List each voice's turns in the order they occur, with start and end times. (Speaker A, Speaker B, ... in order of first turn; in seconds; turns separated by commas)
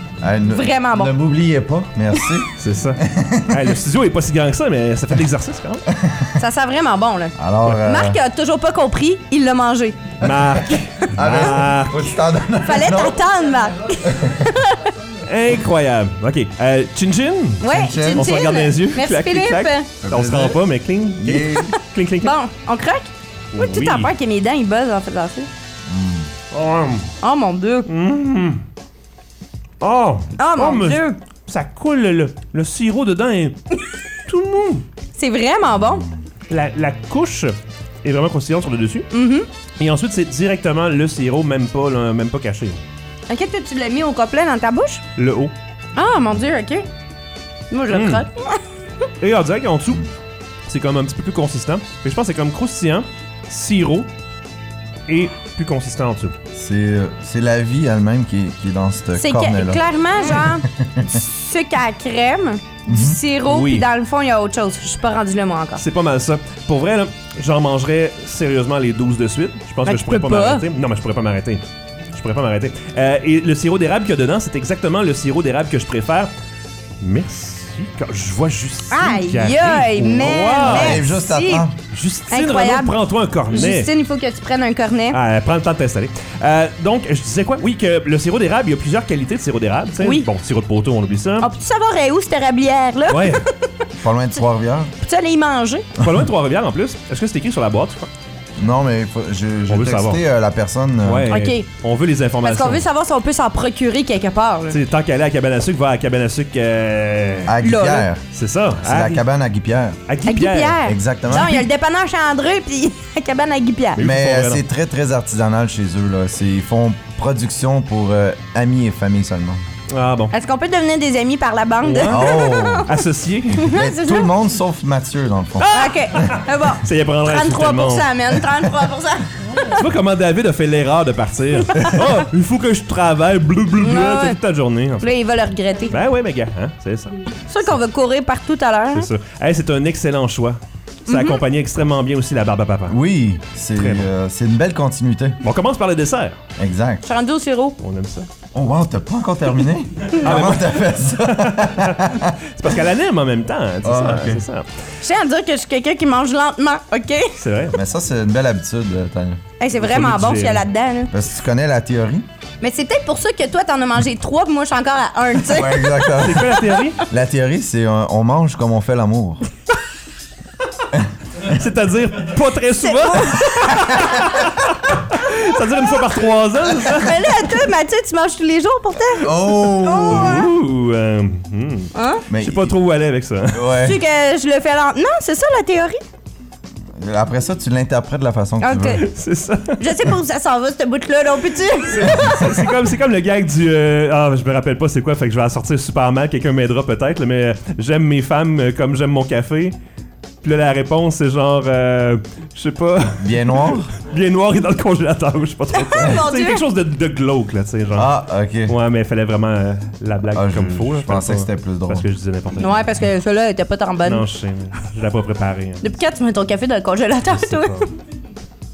Speaker A: 0.2-3.8, Speaker B: 0.5-1.1, Speaker C: 2.6-5.8, Speaker A: 5.9-6.3, Speaker B: 6.4-10.2, Speaker A: 7.4-8.2, Speaker C: 10.2-12.1, Speaker A: 10.2-10.6, Speaker A: 11.2-13.2, Speaker B: 12.7-14.9, Speaker A: 14.0-14.5, Speaker C: 15.2-22.3, Speaker B: 17.6-19.9, Speaker A: 17.7-18.3, Speaker A: 20.0-20.6, Speaker A: 21.2-21.8, Speaker B: 22.2-25.5, Speaker C: 23.5-24.1, Speaker A: 25.9-26.3, Speaker C: 26.5-27.1, Speaker B: 27.2-27.9, Speaker C: 27.9-28.6, Speaker C: 29.8-33.6, Speaker B: 30.4-31.1, Speaker C: 34.3-34.9, Speaker B: 35.2-36.1, Speaker C: 36.5-39.1, Speaker B: 39.1-39.5, Speaker C: 39.8-42.8, Speaker B: 43.3-45.0, Speaker C: 45.2-45.5, Speaker B: 46.0-46.9, Speaker B: 47.7-48.6, Speaker C: 47.9-48.2, Speaker C: 49.2-50.0, Speaker C: 50.7-54.1, Speaker C: 55.1-56.4, Speaker A: 56.5-61.2, Speaker B: 59.1-65.8, Speaker A: 62.9-63.2, Speaker C: 63.4-63.9, Speaker C: 65.8-76.3, Speaker B: 69.8-70.7, Speaker C: 77.0-81.0, Speaker B: 78.9-81.7, Speaker A: 80.7-81.8, Speaker C: 81.9-83.9, Speaker B: 82.3-85.2, Speaker C: 85.1-91.5, Speaker B: 90.0-90.3, Speaker B: 91.4-93.5, Speaker C: 93.1-93.4, Speaker A: 94.0-94.9, Speaker B: 95.0-95.9, Speaker C: 96.0-98.1, Speaker A: 98.6-101.3, Speaker C: 99.7-100.2, Speaker C: 101.0-102.8, Speaker B: 101.3-101.7, Speaker B: 102.4-104.8, Speaker C: 104.7-107.5, Speaker A: 107.5-108.2, Speaker B: 107.6-108.1, Speaker C: 108.3-109.2, Speaker A: 108.8-110.0, Speaker C: 110.1-110.8, Speaker B: 110.2-114.0, Speaker A: 110.8-111.7, Speaker C: 111.3-111.6, Speaker C: 114.0-114.6, Speaker A: 114.0-119.6, Speaker C: 119.9-120.3, Speaker B: 120.3-123.0, Speaker C: 121.8-122.3, Speaker A: 122.1-122.9, Speaker C: 122.9-123.7, Speaker B: 123.6-124.3, Speaker A: 123.7-126.3, Speaker C: 125.6-128.5, Speaker B: 125.7-129.8, Speaker C: 129.6-135.1, Speaker B: 133.8-134.4, Speaker B: 135.0-136.0, Speaker C: 135.9-137.7, Speaker B: 137.5-139.1, Speaker C: 138.9-143.0, Speaker B: 141.1-141.4, Speaker A: 142.9-145.4, Speaker C: 143.8-144.1, Speaker C: 145.4-146.4, Speaker A: 146.6-147.1, Speaker B: 147.0-147.8, Speaker C: 147.8-148.3, Speaker A: 148.5-152.7, Speaker C: 150.2-154.7, Speaker A: 153.8-154.4, Speaker B: 155.0-157.3, Speaker C: 157.4-157.8, Speaker A: 157.7-159.4, Speaker B: 159.6-161.1, Speaker C: 159.8-160.7, Speaker A: 161.1-162.3, Speaker B: 162.6-166.4, Speaker A: 165.4-169.4, Speaker C: 166.2-167.0, Speaker C: 171.4-177.3, Speaker B: 172.7-173.8, Speaker B: 176.9-180.5, Speaker A: 179.2-180.5, Speaker C: 180.0-183.7, Speaker B: 181.9-182.2, Speaker A: 182.3-182.7, Speaker A: 183.5-184.0, Speaker B: 183.8-186.0, Speaker A: 187.0-189.1, Speaker B: 188.6-189.1, Speaker C: 188.9-190.1, Speaker B: 189.8-192.6, Speaker C: 191.9-199.8, Speaker A: 192.0-192.5, Speaker C: 200.4-208.1, Speaker A: 203.2-203.9, Speaker B: 205.7-206.7, Speaker A: 207.9-208.8, Speaker C: 208.7-213.0, Speaker A: 210.3-212.1, Speaker B: 212.6-214.3, Speaker C: 214.0-215.9, Speaker B: 215.8-217.9, Speaker C: 217.2-217.8